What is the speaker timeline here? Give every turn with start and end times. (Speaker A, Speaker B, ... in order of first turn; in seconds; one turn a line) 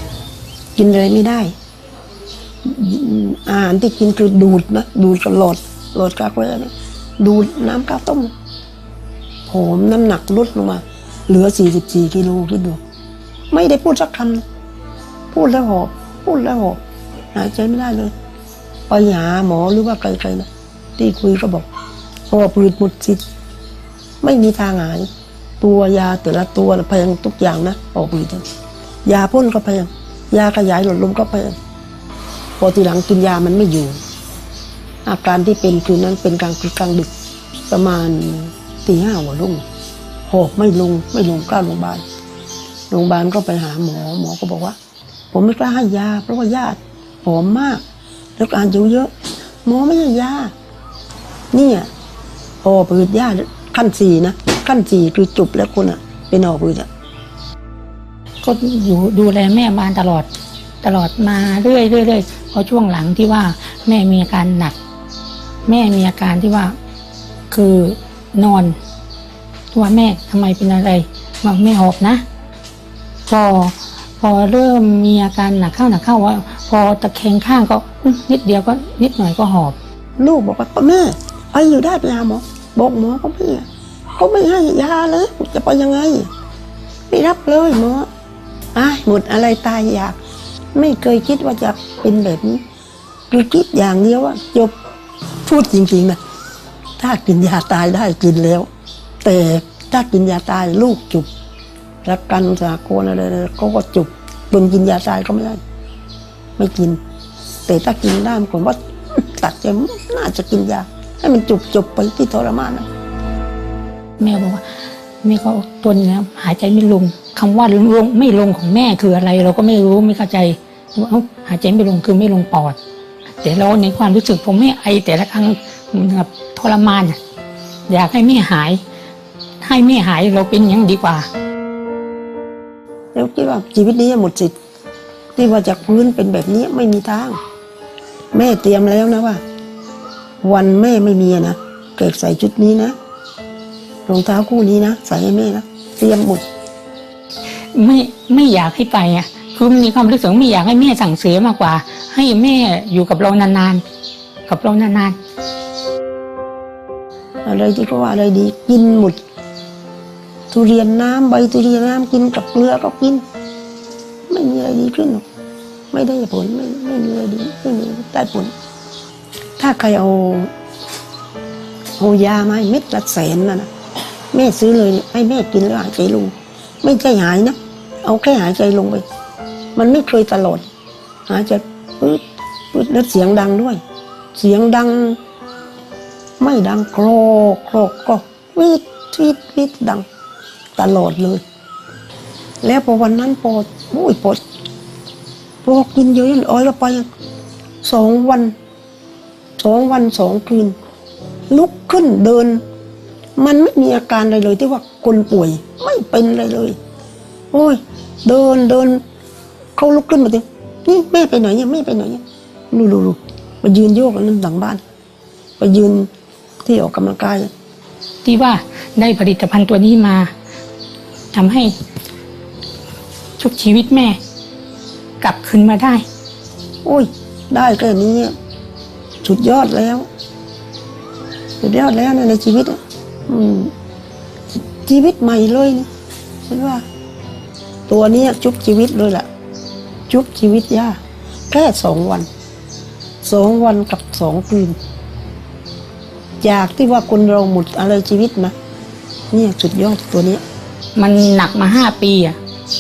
Speaker A: 0.8-1.6
Speaker A: 2.6-8.3
Speaker A: 9.5-12.8
Speaker A: 13.5-14.4
Speaker A: 15.3-16.8
Speaker A: 17.3-18.1
Speaker A: 18.9-21.7
Speaker A: 22.3-23.2
Speaker A: 24.2-25.1
Speaker A: 25.6-28.5
Speaker A: 29.1-31.6
Speaker A: 32.6-34.0
Speaker A: 35.0-37.1
Speaker A: 37.7-39.6
Speaker A: 40.3-42.0
Speaker A: 42.9-44.8
Speaker A: 45.3-47.8
Speaker A: 48.4-49.1
Speaker A: 49.6-50.5
Speaker A: 51.5-51.9
Speaker A: 52.6-56.9
Speaker B: 58.4-60.3
Speaker B: 60.8-64.8
Speaker B: 65.7-66.8
Speaker B: 67.5-68.8
Speaker B: 69.7-72.2
Speaker B: 73.3-79.8
Speaker A: 80.2-86.3
Speaker A: 87.1-88.1
Speaker A: 88.7-90.2
Speaker A: 90.7-92.6
Speaker A: 93.3-94.7
Speaker A: 95.5-96.2
Speaker A: 97.0-98.7
Speaker A: 99.2-101.3
Speaker A: 102.0-105.6
Speaker A: 106.6-107.0
Speaker A: 107.7-112.9
Speaker B: 114.2-114.6
Speaker B: 115.2-122.8
Speaker B: 123.4-127.2
Speaker B: 127.9-128.8
Speaker B: 129.6-131.3
Speaker A: 133.1-134.5
Speaker A: 135.4-137.4
Speaker A: 138.3-139.4
Speaker A: 140.4-142.9
Speaker A: 144.1-146.4
Speaker B: 147.7-153.8
Speaker B: 154.5-155.2
Speaker A: 157.4-159.2
Speaker A: 160.5-163.2
Speaker A: 164.3-165.2
Speaker A: 165.9-168.5
Speaker A: 169.6-170.5
Speaker A: 172.0-173.7
Speaker A: 174.3-179.0
Speaker A: 179.8-180.7
Speaker A: 181.3-183.8
Speaker A: 184.3-185.2
Speaker A: 186.4-190.1
Speaker A: 190.8-191.4
Speaker A: 192.6-194.4
Speaker A: 195.6-197.1
Speaker A: 197.8-198.6
Speaker A: 199.6-200.8
Speaker A: 201.5-202.6
Speaker A: 203.4-206.8
Speaker A: 207.5-209.0
Speaker A: 209.8-214.8
Speaker A: 215.6-216.1
Speaker A: 216.6-217.5
Speaker B: 218.2-220.3
Speaker B: 221.3-221.7
Speaker B: 223.4-224.2
Speaker B: 225.2-226.1
Speaker A: 226.8-228.3
Speaker A: 229.2-230.1
Speaker A: 231.6-233.7
Speaker A: 234.8-235.9
Speaker A: 236.5-236.8
Speaker A: 237.9-239.3
Speaker A: 240.1-241.0
Speaker A: 241.5-242.3
Speaker A: 243.2-244.8
Speaker A: 246.4-248.5
Speaker A: 249.3-250.4
Speaker B: 251.0-252.4